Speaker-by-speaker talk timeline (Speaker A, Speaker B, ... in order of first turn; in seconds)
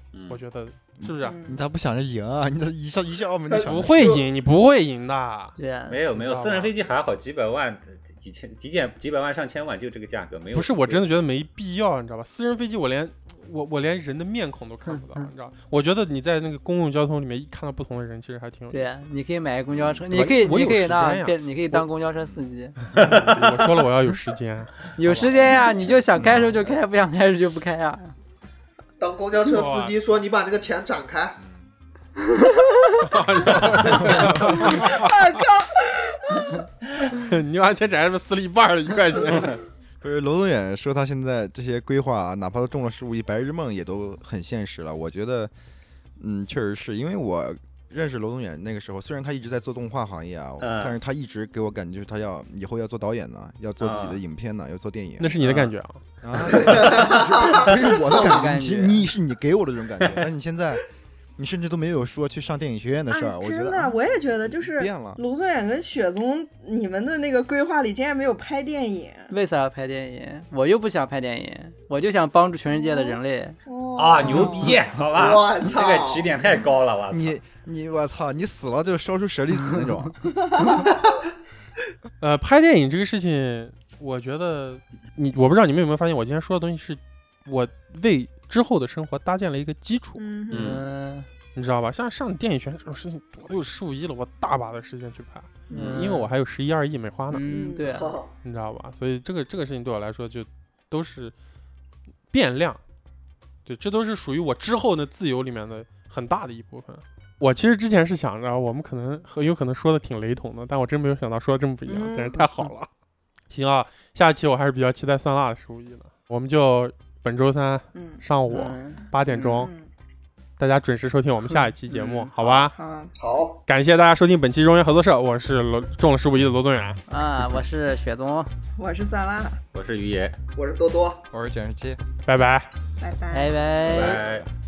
Speaker A: 0.1-0.4, 5.9-11.1, 22.9-23.8, 50.6-51.0, 53.8-54.2, 56.5-57.0, 74.0-77.4, 90.5-90.8, 95.7-96.1, 129.7-130.3, 133.9-134.5
Speaker B: 0.3-1.4, 3.6-5.6, 6.1-6.7, 10.5-19.0, 20.1-21.9, 23.0-25.3, 29.5-30.0, 33.0-35.5, 37.1-39.6, 55.2-56.0, 82.2-90.2, 91.5-97.5, 98.4-101.3, 102.3-102.8, 103.6-112.9, 113.5-119.7, 120.6-122.7, 123.7-127.0, 132.2-132.7
Speaker C: 1.0-4.2, 31.4-31.7, 33.9-34.3, 40.0-45.5, 46.2-60.8, 61.4-65.2, 77.1-80.2, 131.3-132.0, 133.9-134.5
Speaker D: 1.2-1.6, 25.4-25.9, 34.8-36.5, 63.1-69.3, 72.7-74.8, 90.1-90.8, 95.7-96.0, 97.4-98.2, 111.9-112.5, 117.9-118.2, 119.6-119.9, 122.5-123.1, 128.8-129.6, 133.0-133.7
Speaker E: 3.5-4.2, 29.0-31.4, 56.5-58.5, 75.1-76.4, 97.9-98.3, 123.2-123.6, 130.6-131.2
Speaker F: 5.6-6.0, 14.9-15.3, 18.7-22.8, 25.0-28.1, 58.0-59.1, 69.3-73.6, 90.6-91.3, 95.8-96.3, 97.3-98.1, 118.5-119.7, 121.9-122.6, 127.1-128.5, 133.3-134.2